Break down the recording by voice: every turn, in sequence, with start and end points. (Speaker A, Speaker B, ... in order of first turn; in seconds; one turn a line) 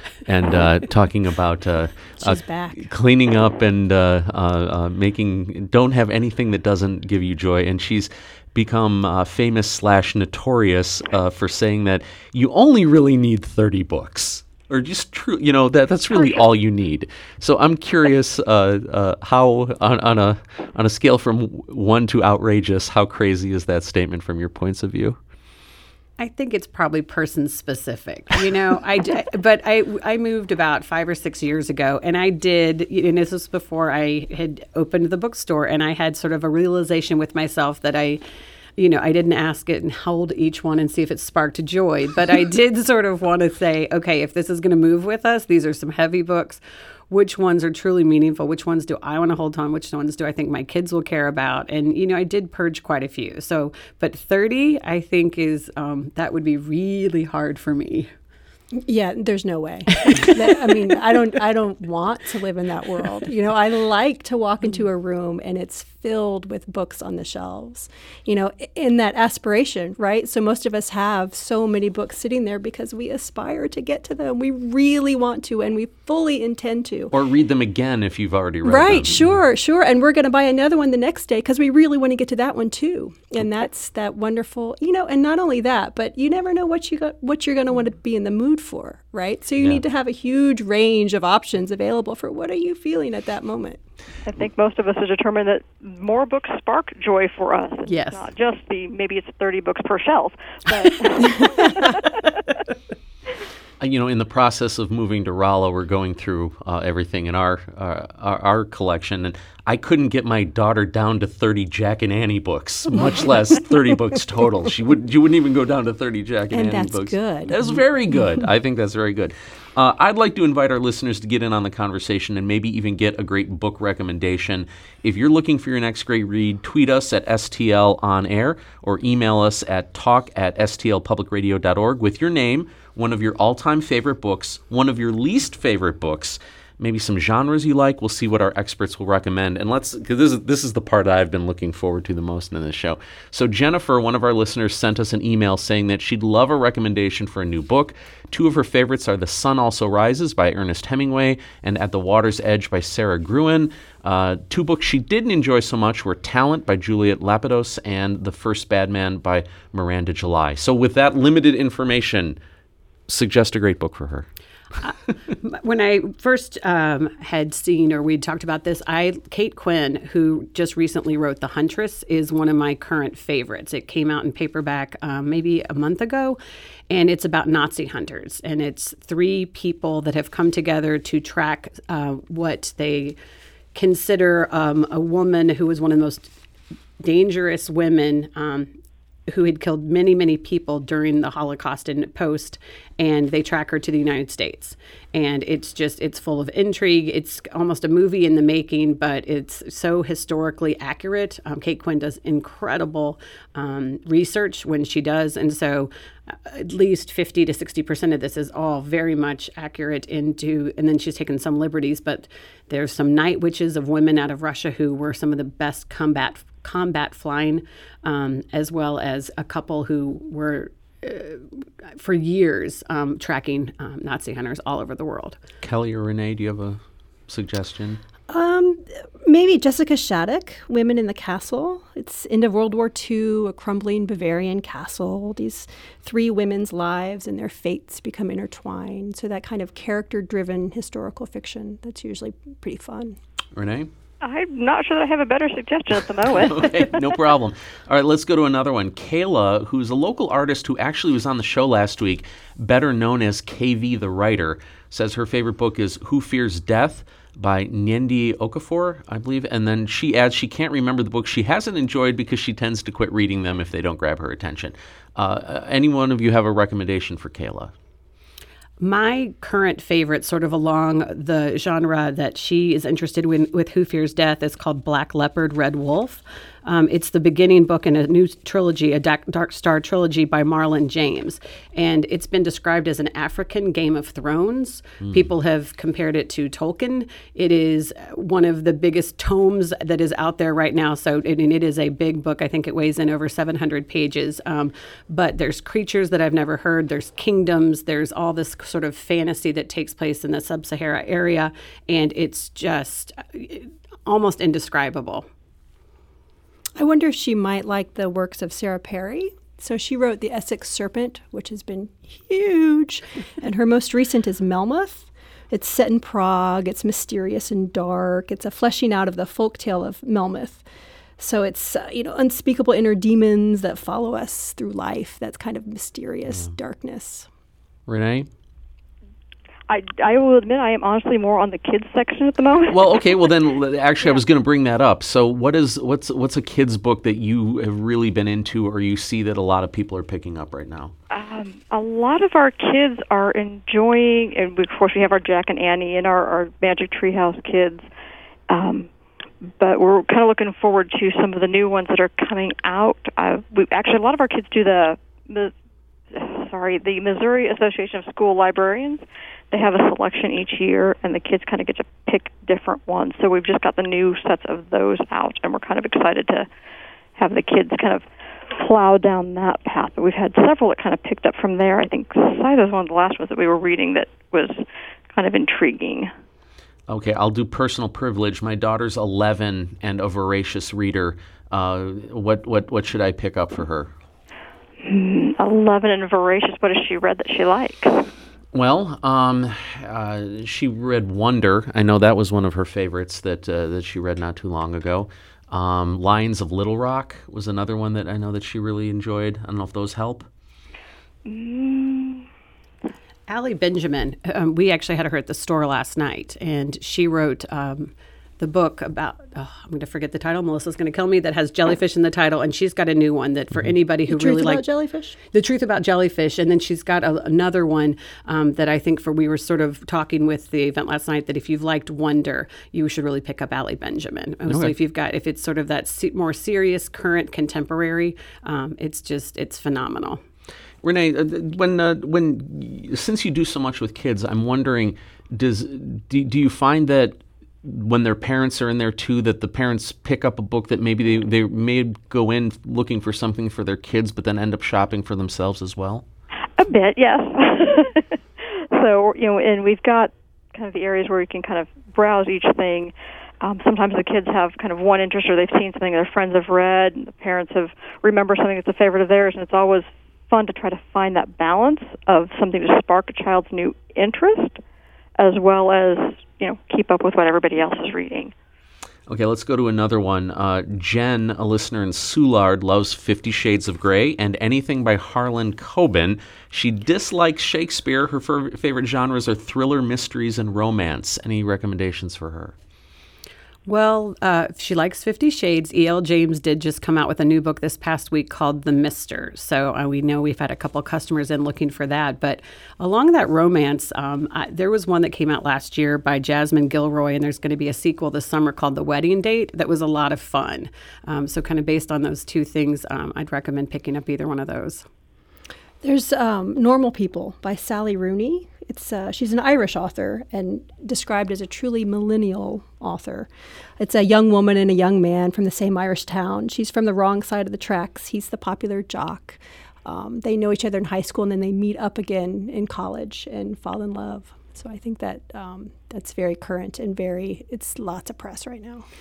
Speaker A: 0.2-25.2
Speaker B: 2.2-2.9
Speaker C: 26.2-38.2
Speaker C: 38.8-58.1
Speaker B: 58.8-77.1
Speaker C: 60.0-60.4
Speaker A: 77.1-79.4
Speaker B: 78.6-93.8
Speaker D: 94.2-102.4
Speaker C: 97.9-98.3
Speaker A: 103.8-162.4
Speaker B: 116.5-117.6
Speaker A: 163.1-164.3
Speaker C: 164.8-176.4
Speaker C: 176.9-183.2
Speaker C: 183.8-186.3
Speaker C: 187.0-188.7
Speaker C: 189.3-225.4
Speaker A: 225.6-228.0
Speaker B: 228.3-243.2
Speaker A: 243.6-243.9
Speaker D: 244.2-247.0
Speaker A: 246.3-267.7
Speaker C: 268.8-305.3
Speaker B: 306.8-320.6
Speaker B: 321.2-327.3
Speaker A: 327.9-328.3
Speaker D: 329.7-333.3
Speaker A: 332.7-340.9
Speaker D: 341.1-347.8
Speaker D: 348.5-348.9
Speaker D: 349.6-355.5
Speaker D: 356.1-366.5
Speaker D: 367.2-376.1
Speaker A: 376.9-383.9
Speaker D: 384.8-388.1
Speaker A: 388.5-400.3
Speaker D: 401.3-402.3
Speaker C: 403.3-414.6
Speaker B: 414.1-415.2
Speaker C: 415.3-430.2
Speaker A: 424.5-424.7
Speaker A: 430.8-446.1
Speaker D: 446.6-464.6
Speaker D: 465.2-468.3
Speaker A: 469.1-482.6
Speaker C: 483.7-504.8
Speaker B: 505.8-528.9